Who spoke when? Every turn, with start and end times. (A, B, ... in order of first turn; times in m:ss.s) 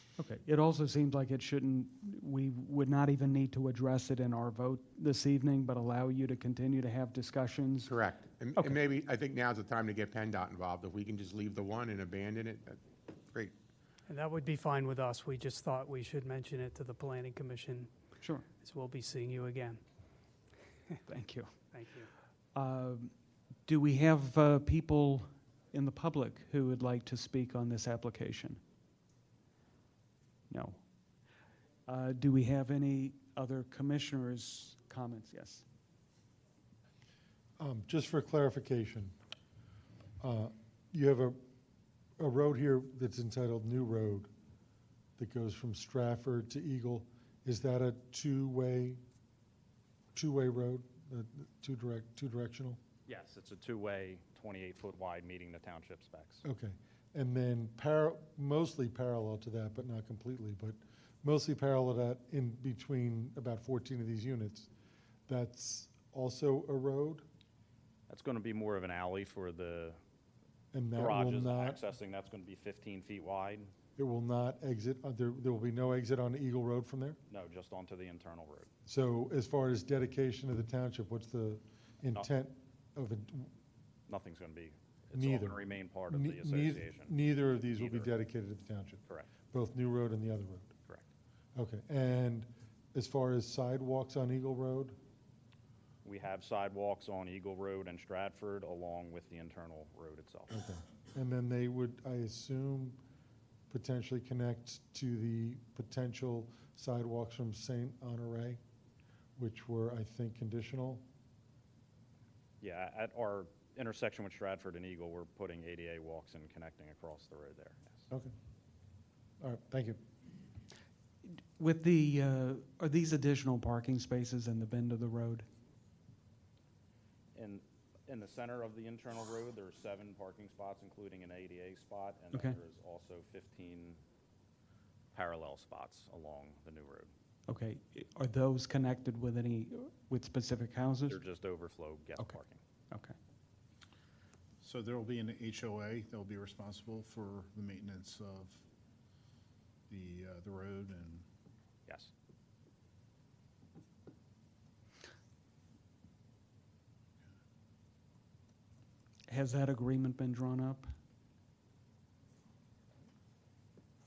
0:00.2-0:08.0 A
0:07.9-0:12.8 B
0:14.1-0:17.9 C
0:18.6-0:19.8 C
0:21.0-0:21.5 A
0:21.7-0:22.1 C
0:22.5-0:23.1 A
0:23.6-0:28.6 A
0:30.5-0:30.8 A
0:31.9-0:35.6 A
0:37.6-0:39.1 D
0:40.2-0:41.4 D
0:42.2-0:44.3 D
0:45.2-0:49.0 D
0:50.1-0:52.8 D
0:53.1-0:56.4 E
0:56.4-1:04.7 D
1:05.3-1:07.2 D
1:08.1-1:10.0 E
1:10.7-1:11.8 D
1:10.9-1:13.7 E
1:14.0-1:17.2 D
1:17.3-1:18.7 E
1:18.8-1:23.5 D
1:24.1-1:28.1 E
1:25.1-1:30.7 D
1:31.5-1:35.0 D
1:36.0-1:40.6 E
1:40.5-1:43.0 D
1:43.7-1:48.6 D
1:49.4-1:51.0 D
1:52.6-1:58.1 E
1:59.4-2:00.0 D
2:01.6-2:05.5 A
2:07.3-2:14.0 E
2:12.3-2:12.6 A
2:15.1-2:17.1 E
2:17.5-2:21.2 A
2:21.1-2:22.6 E
2:24.6-2:28.6 F
2:29.9-2:31.2 F
2:31.9-2:32.1 E
2:39.3-2:40.9 A